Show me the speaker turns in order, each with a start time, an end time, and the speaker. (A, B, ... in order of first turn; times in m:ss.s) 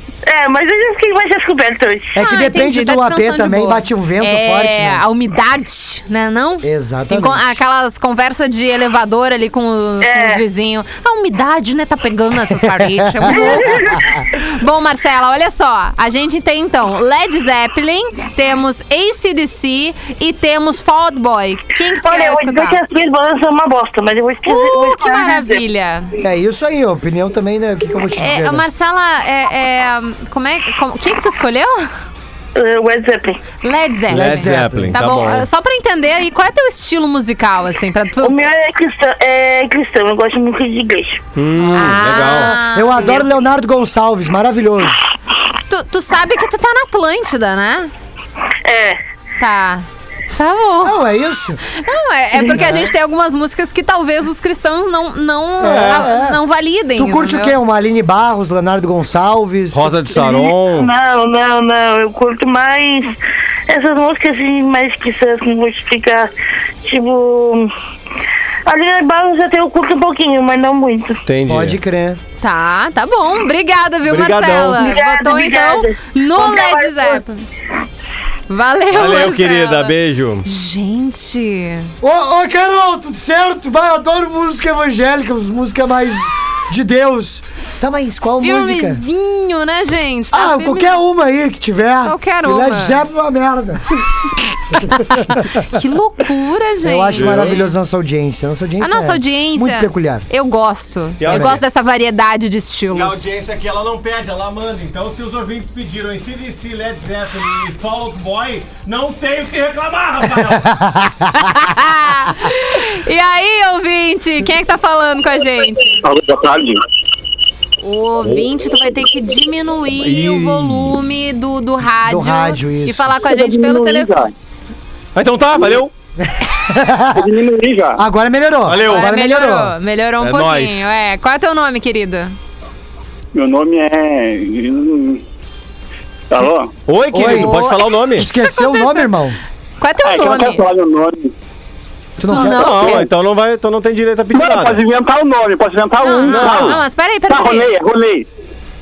0:00.3-0:02.2 A
0:02.1-0:05.0 B
0:02.2-0:22.8 C
0:06.6-0:07.5 B
0:10.0-0:10.4 A
0:12.9-0:13.6 B
0:13.3-0:14.0 A
0:22.0-0:25.6 A
0:24.4-0:26.1 C
0:26.2-0:28.6 B
0:28.2-0:31.9 C
0:32.6-0:33.4 A
0:33.6-0:38.4 C
0:34.1-0:35.0 B
0:34.1-0:35.5 D
0:38.2-0:41.2 A
0:41.4-0:42.6 D
0:41.6-0:45.1 B
0:41.7-0:43.3 C
0:45.7-0:47.9 C
0:48.6-0:49.0 A
0:49.4-0:51.0 C
0:50.8-0:51.6 B
0:51.6-0:57.6 C
0:52.5-0:52.9 B
0:55.6-0:56.4 B
0:55.6-0:56.1 D
0:57.0-1:00.0 B
0:59.7-1:00.9 D
1:00.1-1:03.2 A
1:03.7-1:06.3 A
1:06.8-1:07.7 A
1:08.7-1:11.2 A
1:11.3-1:11.8 D
1:11.5-1:12.2 B
1:12.4-1:17.5 C
1:14.1-1:14.9 D
1:14.8-1:17.2 A
1:18.5-1:19.9 C
1:18.9-1:20.5 D
1:20.4-1:21.9 C
1:22.0-1:29.0 B
1:28.4-1:31.0 C
1:30.3-1:33.9 B
1:32.0-1:33.0 C
1:34.7-1:35.7 B
1:35.6-1:37.7 C
1:36.8-1:40.3 B
1:37.1-1:37.6 D
1:38.8-1:43.2 C
1:41.2-1:41.6 D
1:41.3-1:41.6 B
1:42.9-1:50.7 D
1:50.5-1:51.3 B
1:51.4-1:56.0 C
1:56.0-1:56.8 E
1:57.8-2:04.3 C
1:59.9-2:01.0 D
2:02.0-2:03.1 B
2:03.2-2:04.3 E
2:05.1-2:05.9 D
2:06.2-2:07.3 B
2:07.2-2:08.0 E
2:08.0-2:09.7 B
2:08.7-2:09.1 D
2:08.8-2:12.4 C
2:10.2-2:10.9 D
2:13.3-2:15.2 E
2:16.3-2:16.7 E
2:16.9-2:18.3 D
2:17.1-2:17.5 B
2:17.2-2:19.2 C
2:18.2-2:19.4 B
2:19.8-2:20.6 C
2:20.0-2:21.3 E
2:22.2-2:23.0 B
2:22.3-2:23.1 C
2:22.3-2:24.8 D
2:24.3-2:28.2 E
2:26.0-2:27.7 C
2:26.3-2:26.8 D